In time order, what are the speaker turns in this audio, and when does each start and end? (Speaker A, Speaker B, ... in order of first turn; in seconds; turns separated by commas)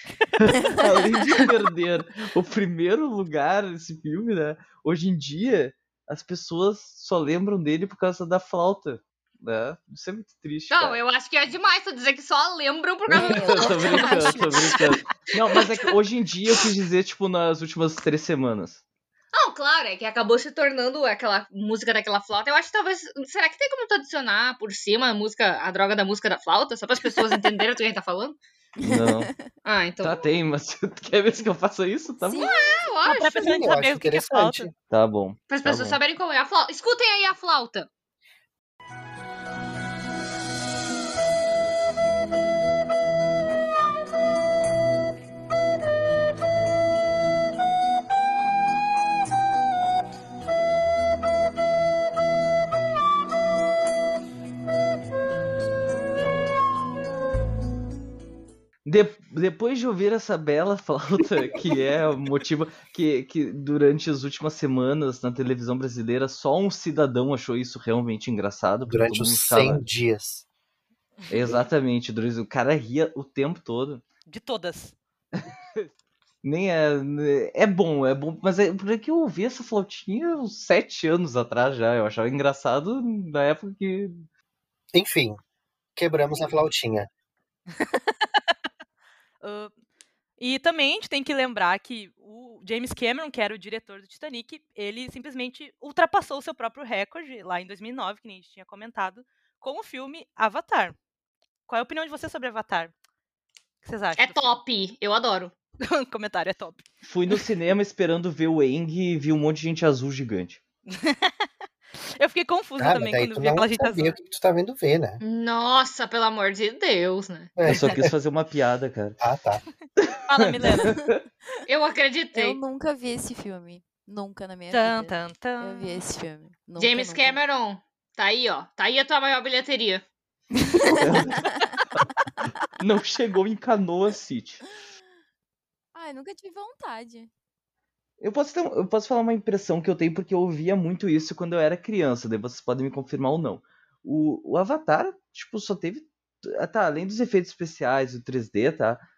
Speaker A: 0.4-11.0, Speaker B: 10.7-14.5, Speaker A: 13.1-18.8, Speaker C: 13.1-15.0, Speaker B: 19.3-28.4, Speaker A: 28.8-29.3, Speaker C: 28.8-29.5, Speaker B: 29.6-30.2, Speaker A: 30.0-32.6, Speaker C: 32.2-32.6, Speaker B: 32.4-33.4, Speaker D: 33.0-34.7, Speaker E: 33.3-34.7, Speaker A: 34.9-36.0, Speaker B: 35.5-37.9, Speaker A: 58.9-69.8, Speaker E: 68.9-70.5, Speaker A: 71.3-74.0, Speaker D: 74.3-75.0, Speaker A: 75.4-75.8, Speaker A: 76.4-84.3, Speaker E: 84.9-85.4, Speaker E: 86.0-87.1, Speaker D: 87.7-88.5, Speaker D: 89.4-89.7, Speaker D: 90.4-101.0, Speaker D: 101.7-102.9, Speaker D: 103.8-104.6, Speaker B: 104.2-105.5, Speaker D: 105.8-107.4, Speaker A: 107.0-110.6, Speaker D: 110.9-111.3, Speaker D: 112.2-114.2, Speaker E: 112.8-115.2, Speaker B: 115.2-117.5, Speaker E: 117.6-118.1, Speaker A: 117.7-119.2, Speaker E: 119.2-119.6, Speaker A: 120.0-121.2, Speaker D: 120.3-121.0, Speaker B: 121.7-122.6, Speaker C: 122.3-127.4, Speaker D: 124.7-126.0, Speaker B: 126.8-130.0, Speaker A: 130.8-131.4, Speaker C: 130.9-131.7, Speaker A: 132.8-134.6, Speaker C: 135.9-137.3, Speaker A: 138.2-149.0